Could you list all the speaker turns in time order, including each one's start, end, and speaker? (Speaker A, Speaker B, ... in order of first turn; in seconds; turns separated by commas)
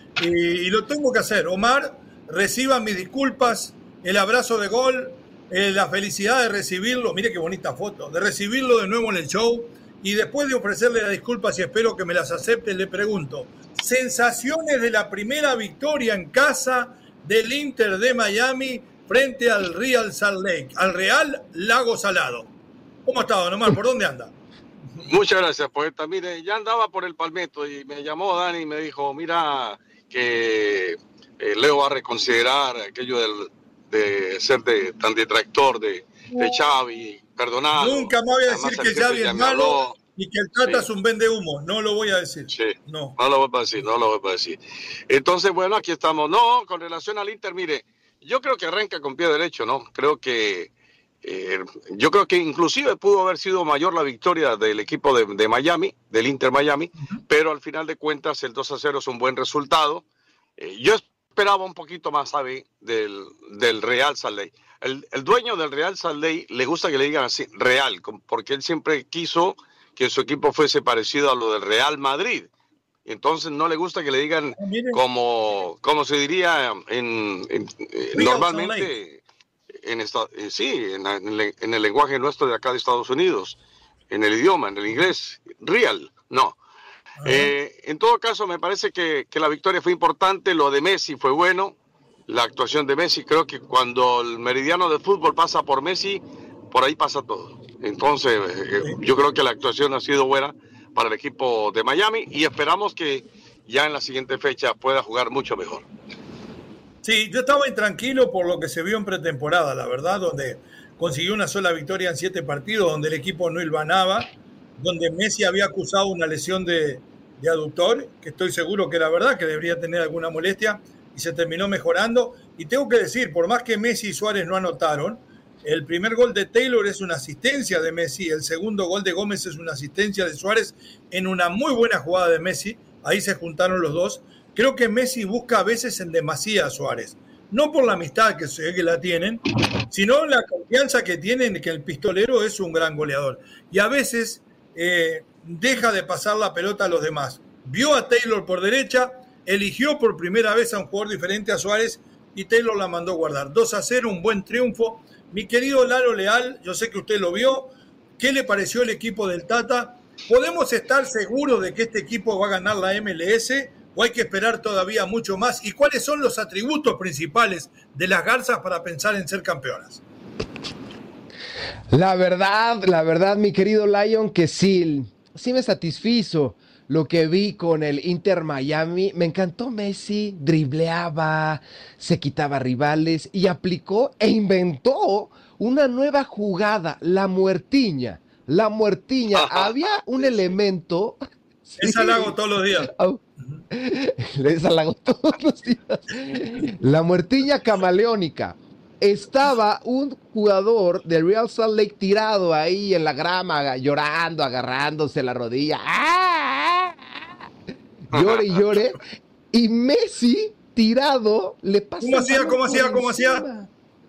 Speaker A: 0.2-22.5, Speaker A: 23.1-24.3, Speaker B: 25.0-40.0, Speaker A: 37.8-43.2, Speaker B: 42.5-50.7, Speaker B: 51.2-60.0, Speaker B: 60.6-72.5, Speaker B: 73.0-79.2, Speaker A: 74.6-75.0, Speaker A: 78.1-78.9, Speaker B: 79.8-83.6, Speaker B: 84.1-86.5, Speaker A: 87.2-87.5, Speaker B: 87.2-91.7, Speaker B: 92.3-105.8, Speaker A: 107.0-170.0, Speaker C: 171.9-193.2, Speaker B: 189.3-190.5, Speaker A: 191.8-193.6, Speaker C: 193.7-207.0, Speaker B: 208.1-208.7, Speaker C: 208.1-213.7, Speaker A: 212.0-213.4